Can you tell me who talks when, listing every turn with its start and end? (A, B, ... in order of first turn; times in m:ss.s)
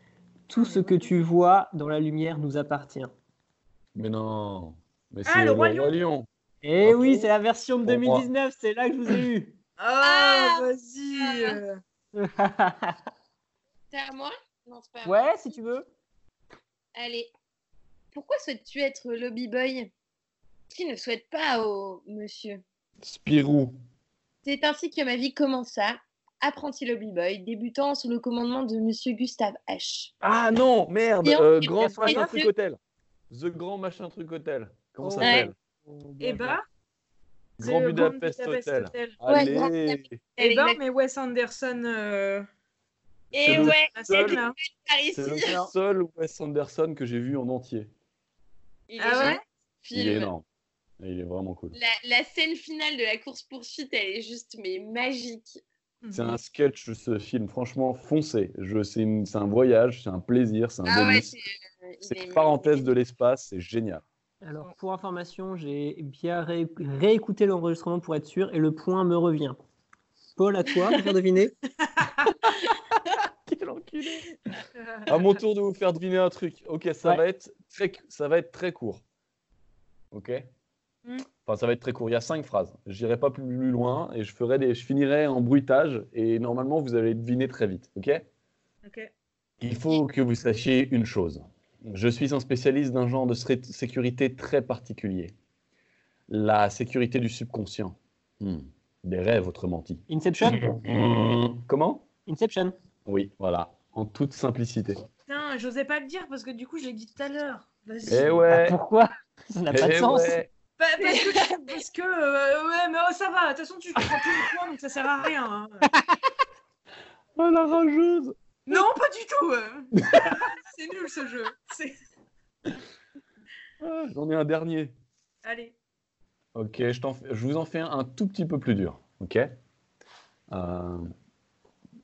0:00.5-0:03.1 A
0:00.6-0:01.2 B
0:04.0-0:06.3 C
0:05.2-0:05.9 B
0:06.6-0:09.6 A
0:06.8-0:07.3 C
0:07.8-0:08.3 C
0:09.8-0:11.8 B
0:10.0-0:10.6 D
0:11.2-0:11.6 D
0:12.1-0:13.0 A
0:13.9-0:15.6 D
0:15.0-0:15.9 A
0:17.0-0:17.3 D
0:18.1-0:19.9 D
0:20.7-0:22.6 D
0:23.0-0:23.8 C
0:24.4-0:30.1 D
0:30.2-0:32.8 C
0:31.2-0:32.3 D
0:31.8-0:32.3 A
0:33.3-0:35.6 C
0:35.0-0:36.6 A
0:35.2-0:35.5 D
0:36.2-0:36.6 B
0:37.6-0:39.2 B
0:37.6-0:40.2 C
0:39.3-0:40.8 D
0:40.4-0:42.5 B
0:43.3-0:45.6 D
0:43.3-0:44.4 C
0:43.5-0:44.6 B
0:45.1-0:47.9 C
0:48.9-0:50.3 D
0:49.0-0:49.4 B
0:49.9-0:50.4 C
0:51.0-0:51.8 C
0:51.7-0:55.6 D
0:56.0-0:56.4 B
0:56.1-1:01.3 C
1:00.9-1:02.9 D
1:02.0-1:04.0 C
1:04.4-1:09.6 A
1:10.4-1:11.6 A
1:11.8-1:12.4 B
1:13.1-1:14.3 C
1:14.8-1:15.4 B
1:15.1-1:19.0 C
1:20.1-1:20.4 C
1:21.4-1:28.2 C
1:28.8-1:29.1 B
1:29.6-1:35.3 C
1:36.3-1:42.1 C
1:40.1-1:40.7 A
1:42.3-1:42.8 A
1:43.1-1:45.0 C
1:45.3-1:48.5 B
1:48.1-1:48.8 C
1:48.5-1:50.4 A
1:49.7-1:50.5 C
1:50.8-1:55.9 B
1:51.0-1:51.4 D
1:57.4-1:58.4 C
1:58.7-2:02.0 B
2:00.0-2:00.4 C
2:03.8-2:04.9 C
2:05.4-2:05.8 B
2:06.6-2:09.5 C
2:10.5-2:11.1 C